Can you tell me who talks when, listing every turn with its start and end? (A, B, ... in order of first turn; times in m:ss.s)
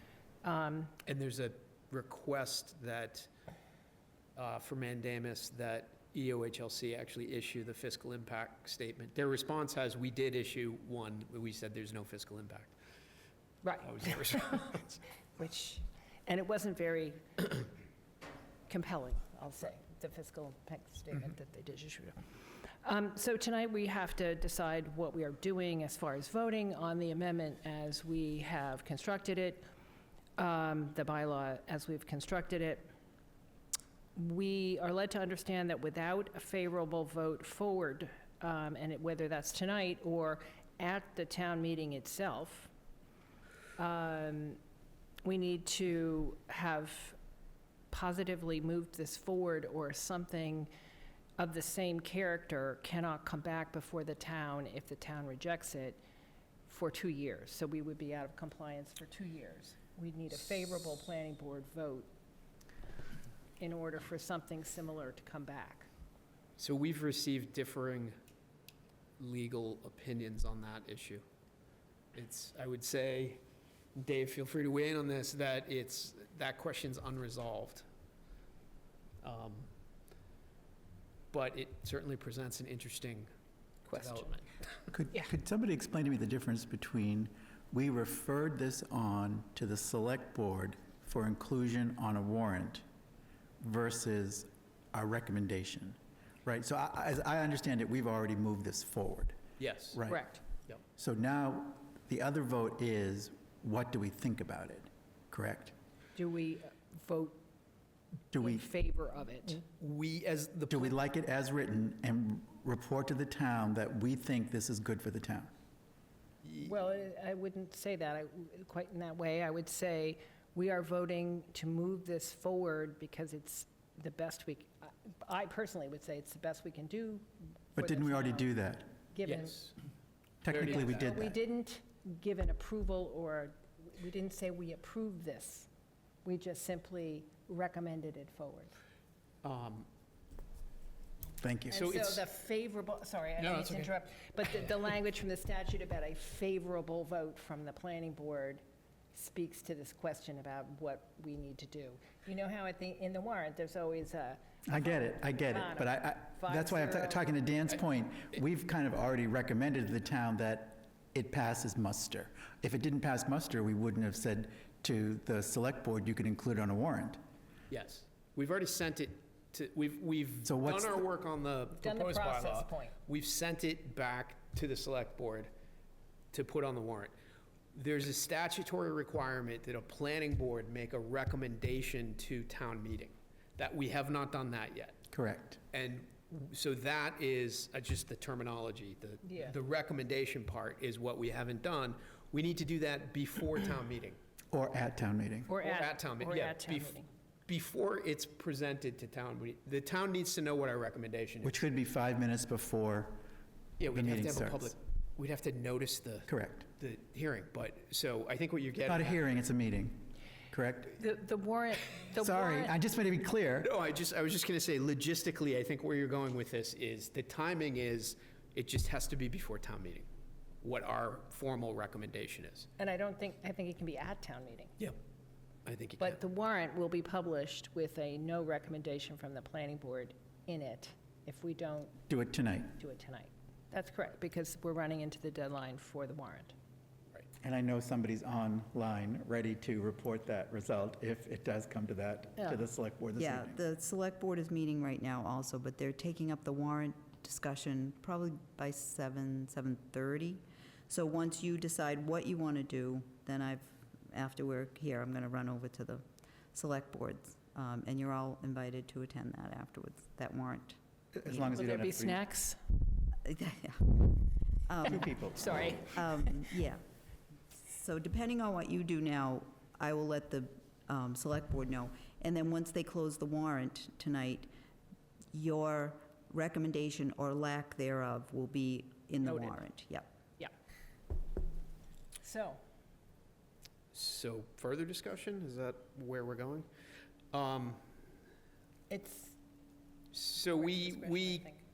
0:00.4-0:00.9 A
0:01.0-0:03.3 B
0:04.4-0:12.7 B
0:13.6-0:14.7 A
0:13.8-0:15.0 B
0:15.4-0:17.6 A
0:18.7-0:22.2 A
0:22.8-0:29.7 A
0:30.4-0:32.9 A
0:34.2-0:42.7 A
0:43.8-0:44.6 A
0:45.2-0:47.2 A
0:47.9-0:50.7 A
0:51.4-0:56.0 A
0:56.7-1:02.1 A
1:03.6-1:05.9 A
1:06.6-1:08.1 B
1:09.2-1:11.2 B
1:12.1-1:13.4 B
1:13.9-1:17.9 B
1:19.2-1:19.7 B
1:21.3-1:23.3 B
1:23.9-1:24.5 B
1:23.9-1:24.3 A
1:24.9-1:32.8 C
1:33.6-1:39.4 C
1:39.6-1:40.0 B
1:39.9-1:40.3 C
1:40.1-1:40.4 A
1:41.0-1:45.8 C
1:46.1-1:47.4 A
1:48.3-1:48.7 C
1:48.3-1:49.6 A
1:49.5-1:50.9 B
1:50.7-1:55.5 C
1:56.5-2:08.5 A
2:07.8-2:08.9 C
2:09.1-2:09.7 A
2:09.2-2:09.7 B
2:10.4-2:11.4 C
2:10.5-2:11.1 B
2:10.5-2:15.7 A
2:16.2-2:18.7 A
2:19.4-2:19.9 B
2:21.4-2:22.2 C
2:21.7-2:37.5 A
2:21.8-2:22.2 B
2:23.4-2:23.9 B
2:34.7-2:47.2 C
2:47.7-2:55.5 B
2:50.4-2:51.1 C
2:51.8-2:53.0 A
2:56.3-2:57.1 B
2:57.7-3:05.0 B
3:05.1-3:05.6 C
3:05.7-3:14.2 B
3:09.2-3:09.6 A
3:14.5-3:15.6 C
3:15.5-3:17.1 A
3:15.6-3:21.6 B
3:21.4-3:23.2 C
3:23.8-3:29.2 B
3:23.8-3:24.7 C
3:26.3-3:26.7 C
3:28.8-3:31.0 C
3:31.0-3:32.8 A
3:32.2-3:33.7 C
3:33.6-3:40.1 B
3:40.6-3:42.7 B
3:42.8-3:44.8 A
3:45.6-3:46.2 B
3:46.0-3:52.0 A
3:52.1-3:52.8 C
3:52.8-3:56.6 A
3:57.4-4:03.6 C
4:02.4-4:02.7 A
4:03.2-4:21.7 D
4:21.2-4:22.2 C
4:21.5-4:22.6 A
4:23.2-4:26.8 D
4:24.9-4:25.6 C
4:25.4-4:26.3 A
4:27.6-4:34.5 D
4:35.3-4:40.1 D
4:39.2-4:39.6 A
4:42.2-4:42.6 A
4:43.9-4:46.7 B
4:47.3-4:47.8 B
4:48.9-4:49.4 A
4:50.1-4:51.5 B
4:50.4-4:51.6 A